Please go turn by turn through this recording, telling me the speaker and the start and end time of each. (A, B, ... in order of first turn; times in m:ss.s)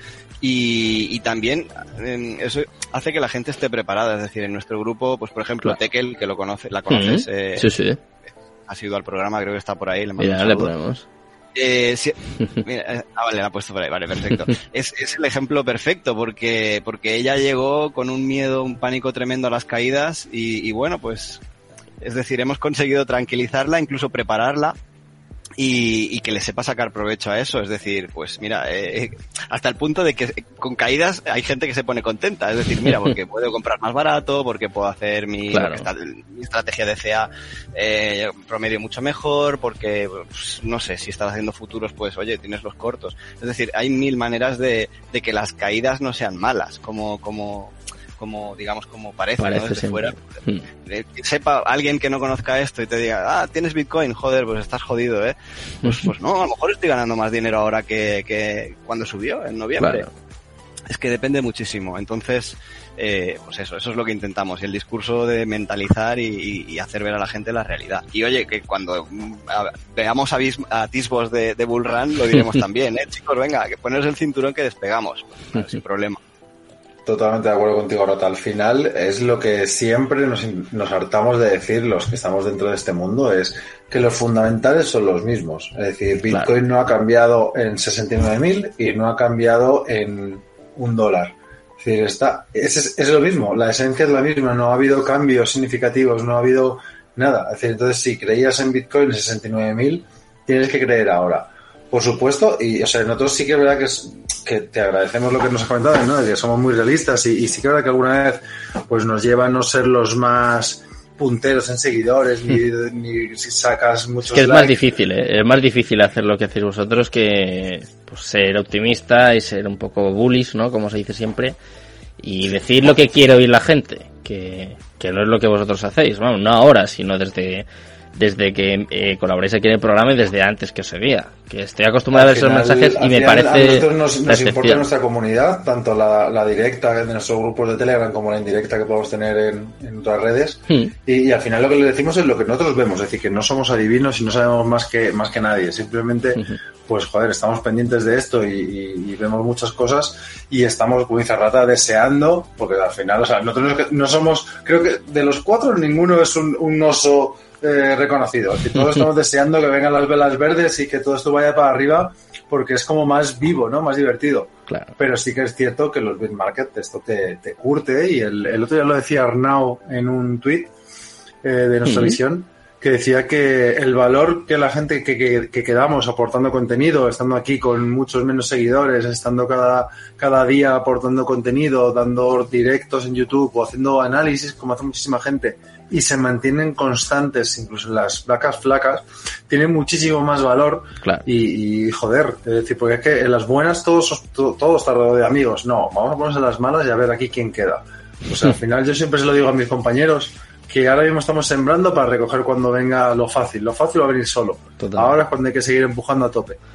0:00.4-0:07.7 A
0:06.9-0:08.0 B
0:08.7-0:10.7 A
0:10.2-0:11.0 B
0:11.5-0:21.4 A
0:22.0-0:24.8 A
0:25.6-1:00.1 A
0:35.5-0:35.9 B
0:49.4-0:50.6 B
0:55.8-0:56.1 B
0:59.8-1:00.1 B
1:00.9-1:16.2 A
1:17.1-1:54.8 C
1:54.3-2:01.6 B
2:02.2-2:14.9 B
2:12.1-2:50.7 C
2:51.4-3:26.6 C
2:51.8-2:52.2 B
3:24.8-3:25.1 B